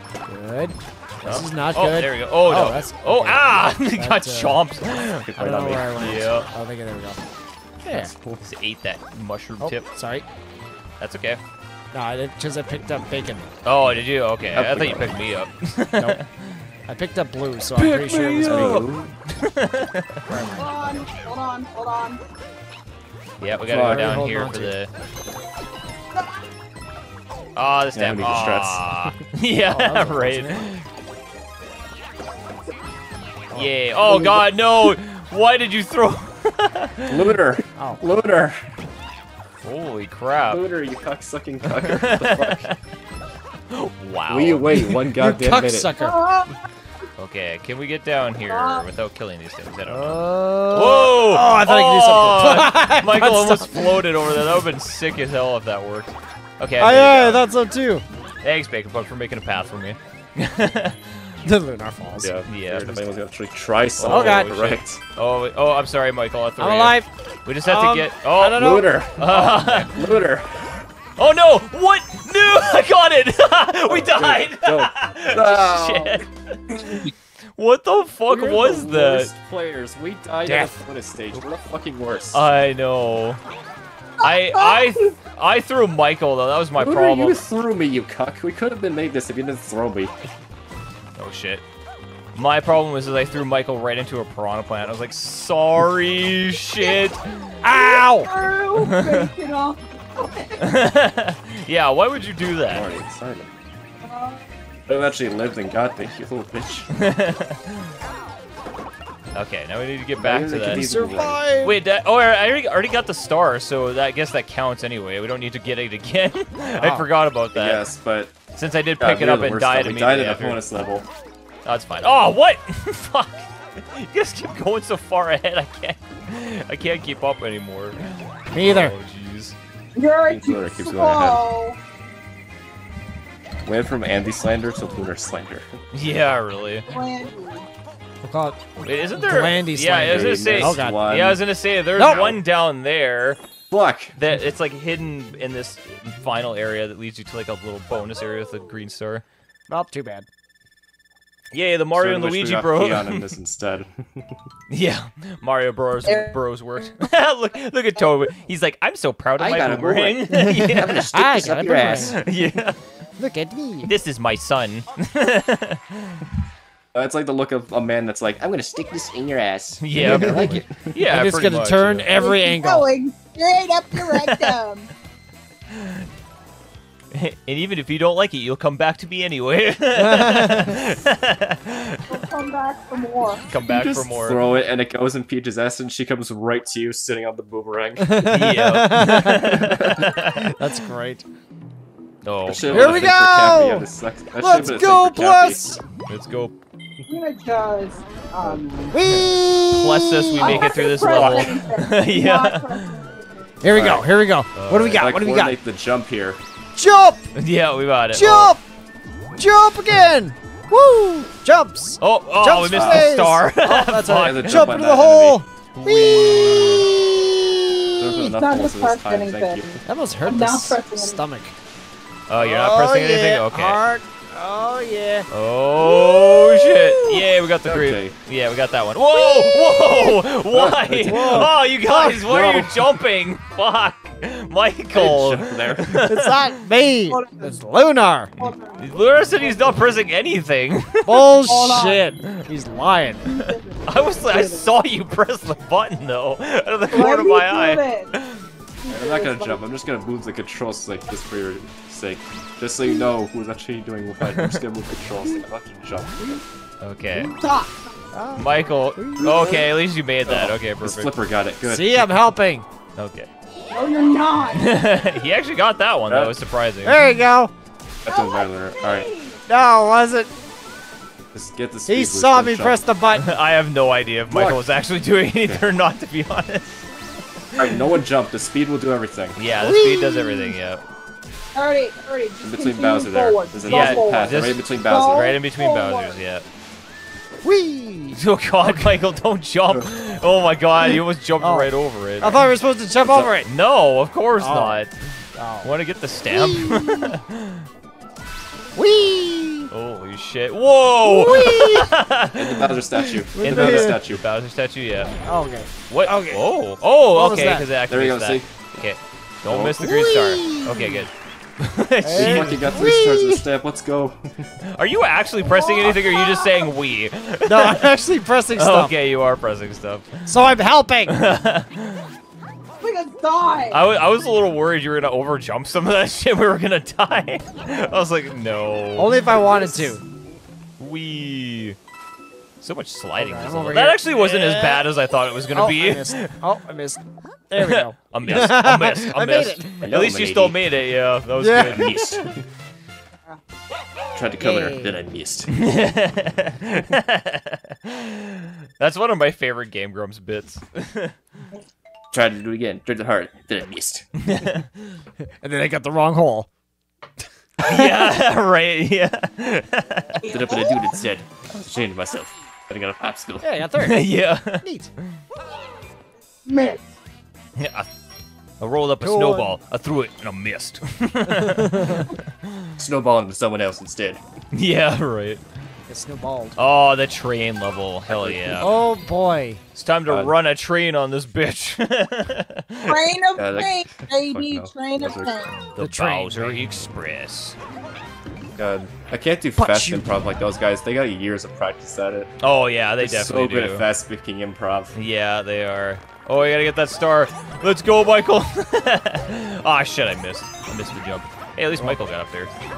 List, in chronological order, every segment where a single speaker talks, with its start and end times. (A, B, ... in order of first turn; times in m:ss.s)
0:00.2-0:04.6 A
0:01.2-0:05.3 B
0:05.2-0:06.1 C
0:05.4-0:07.2 A
0:06.0-0:06.5 B
0:07.8-0:08.1 A
0:07.9-0:08.4 C
0:08.4-0:09.8 B
0:09.6-0:10.2 A
0:11.0-0:11.4 B
0:11.9-0:13.5 A
0:13.6-0:16.6 B
0:14.5-0:15.2 C
0:16.9-0:18.8 A
0:17.8-0:20.6 B
0:18.4-0:19.1 C
0:20.3-0:20.6 A
0:20.5-0:22.2 D
0:23.4-0:24.9 B
0:23.7-0:24.2 C
0:23.7-0:24.7 A
0:27.6-0:30.8 B
0:27.9-0:29.1 C
0:29.7-0:30.6 A
0:33.5-0:37.3 B
0:37.1-0:38.6 C
0:39.6-0:40.6 B
0:40.5-0:42.7 C
0:41.7-0:42.8 B
0:43.7-0:44.8 B
0:44.3-0:45.9 C
0:45.1-0:46.2 A
0:46.0-0:46.5 D
0:47.2-0:57.4 B
0:48.5-0:48.8 D
0:49.9-0:54.1 A
0:56.8-0:58.0 A
0:58.4-1:01.3 B
1:01.4-1:03.0 A
1:02.2-1:05.0 C
1:02.5-1:02.9 B
1:04.0-1:10.1 B
1:04.0-1:04.5 A
1:06.6-1:07.1 A
1:07.6-1:08.9 A
1:08.4-1:10.8 C
1:11.2-1:17.0 B
1:13.9-1:17.1 C
1:17.6-1:19.3 B
1:18.3-1:22.4 C
1:20.4-1:20.8 A
1:22.3-1:23.4 B
1:24.2-1:25.2 D
1:24.2-1:27.4 B
1:26.8-1:30.1 C
1:31.2-1:31.6 B
1:32.3-1:37.2 B
1:37.6-1:38.3 A
1:37.6-1:40.6 D
1:38.8-1:39.3 B
1:40.6-1:42.9 B
1:42.7-1:43.5 C
1:44.0-1:44.5 D
1:44.9-1:46.9 C
1:46.9-1:47.9 B
1:49.3-1:50.9 B
1:50.2-1:51.4 C
1:50.7-1:51.8 A
1:51.6-1:57.8 B
1:56.8-1:57.1 A
1:57.5-1:58.4 C
1:58.5-2:00.6 B
1:59.0-2:01.1 C
2:01.6-2:09.6 B
2:08.5-2:08.9 A
2:10.0-2:11.8 D
2:10.3-2:11.4 C
2:13.6-2:15.7 C
2:15.9-2:16.9 B
2:16.9-2:17.7 D
2:18.2-2:21.0 A
2:18.8-2:23.4 B
2:20.0-2:21.4 C
2:22.0-2:22.2 A
2:22.0-2:22.4 C
2:23.7-2:24.2 C
2:24.1-2:29.2 B
2:29.7-2:30.2 A
2:31.5-2:33.3 B
2:31.9-2:34.4 C
2:34.7-2:41.0 B
2:36.0-2:36.4 D
2:39.4-2:42.2 C
2:40.3-2:42.2 A
2:42.0-2:42.8 B
2:43.2-2:43.9 A
2:43.8-2:46.2 B
2:46.9-2:51.0 C
2:49.8-2:52.1 B
2:49.9-2:52.9 A
2:52.1-2:54.9 D
2:54.0-2:54.6 B
2:55.7-2:56.0 B
2:57.1-3:02.2 B
2:59.9-3:00.8 A
3:02.1-3:03.4 D
3:03.5-3:04.4 B
3:03.6-3:08.4 C
3:08.0-3:09.7 A
3:08.3-3:10.6 B
3:09.4-3:10.1 C
3:10.6-3:11.2 A
3:12.2-3:13.2 B
3:12.4-3:15.6 C
3:12.7-3:15.8 A
3:16.1-3:16.6 B
3:17.1-3:19.0 D
3:18.9-3:20.7 A
3:19.1-3:22.9 B
3:20.4-3:23.4 D
3:21.1-3:21.5 C
3:23.6-3:25.6 A
3:23.7-3:24.1 C
3:24.5-3:25.0 B
3:24.9-3:26.4 C
3:26.8-3:27.2 A
3:27.3-3:28.6 B
3:28.1-3:28.6 A
3:29.3-3:38.3 A
3:32.0-3:34.7 B
3:32.7-3:33.3 C
3:34.1-3:35.4 C
3:35.7-3:36.9 B
3:38.0-3:39.8 C
3:38.2-3:39.6 D
3:39.8-3:41.5 A
3:40.2-3:41.2 D
3:42.3-3:43.8 B
3:42.4-3:45.3 A
3:45.3-3:56.5 B
3:45.8-3:47.2 D
3:47.6-3:48.2 C
3:49.1-3:50.2 D
3:50.5-3:51.5 C
3:51.0-3:52.5 A
3:52.3-3:52.7 C
3:54.9-3:56.0 C
3:56.0-3:58.3 A
3:57.1-3:57.6 D
3:58.4-3:59.9 D
3:58.4-4:01.3 B
4:01.0-4:03.3 A
4:01.4-4:02.1 D
4:03.2-4:04.7 D
4:03.3-4:08.4 B
4:06.9-4:08.1 D
4:08.8-4:09.6 D
4:08.9-4:16.4 C
4:14.2-4:14.6 B
4:16.8-4:17.3 B
4:17.3-4:17.9 D
4:18.1-4:19.2 A
4:18.4-4:21.1 B
4:19.2-4:19.7 C
4:20.2-4:22.1 C
4:21.6-4:22.6 A
4:22.9-4:23.3 B
4:23.7-4:24.6 D
4:24.5-4:27.0 B
4:26.1-4:26.3 C
4:26.8-4:27.5 A
4:28.0-4:29.1 C
4:28.1-4:29.4 D
4:29.5-4:30.3 A
4:31.3-4:32.8 C
4:31.9-4:33.2 A
4:33.1-4:36.8 B
4:34.3-4:34.6 C
4:37.6-4:39.4 C
4:39.4-4:40.8 B
4:39.6-4:40.6 A
4:41.5-4:46.2 D
4:42.4-4:45.4 C
4:43.7-4:46.4 B
4:47.4-4:48.8 A
4:48.1-4:52.4 B
4:51.4-4:53.5 A
4:53.0-4:53.4 C
4:53.4-4:54.9 B
4:54.4-4:54.8 A
4:55.4-4:55.7 A
4:55.6-4:57.6 B
4:56.3-4:57.2 A
4:58.8-4:59.7 A
4:59.7-5:02.8 B
5:01.0-5:01.9 A
5:02.4-5:04.2 C
5:03.0-5:04.0 A
5:03.4-5:05.1 B
5:05.2-5:06.4 A
5:05.9-5:12.6 B
5:07.1-5:07.7 A
5:07.9-5:08.5 C
5:09.5-5:09.9 C
5:09.8-5:11.0 A
5:12.0-5:13.4 A
5:12.1-5:14.5 C
5:14.6-5:17.9 B
5:15.4-5:16.7 D
5:17.4-5:18.9 A
5:18.5-5:20.3 B
5:20.2-5:21.2 A
5:21.1-5:22.1 B
5:22.8-5:23.8 D
5:23.7-5:29.9 B
5:29.0-5:30.0 A
5:30.8-5:31.8 B
5:32.6-5:36.3 B
5:33.2-5:34.8 A
5:35.5-5:39.6 A
5:37.6-5:41.9 B
5:39.8-5:40.6 C
5:41.4-5:42.3 A
5:41.5-5:42.4 C
5:44.1-5:45.5 C
5:44.4-5:45.0 A
5:45.5-5:51.1 B
5:52.1-5:54.1 C
5:54.2-5:55.0 B
5:55.4-5:56.5 A
5:57.6-5:58.2 A
5:57.6-6:00.2 B
6:00.2-6:00.9 D
6:00.3-6:03.5 C
6:03.4-6:04.9 A
6:03.8-6:04.6 B
6:06.4-6:06.9 D
6:07.6-6:07.9 B
6:08.6-6:12.7 B
6:09.0-6:09.6 A
6:11.3-6:12.1 A
6:12.8-6:14.2 C
6:14.5-6:15.4 B
6:15.9-6:16.6 A
6:16.6-6:18.7 B
6:18.1-6:18.7 C
6:18.6-6:19.6 A
6:19.7-6:23.0 B
6:20.1-6:20.3 C
6:22.9-6:25.5 D
6:23.4-6:25.6 C
6:25.8-6:26.8 A
6:25.8-6:27.6 B
6:28.6-6:32.3 C
6:29.6-6:30.0 A
6:32.4-6:33.8 B
6:33.0-6:34.9 C
6:34.9-6:42.5 B
6:41.8-6:42.0 A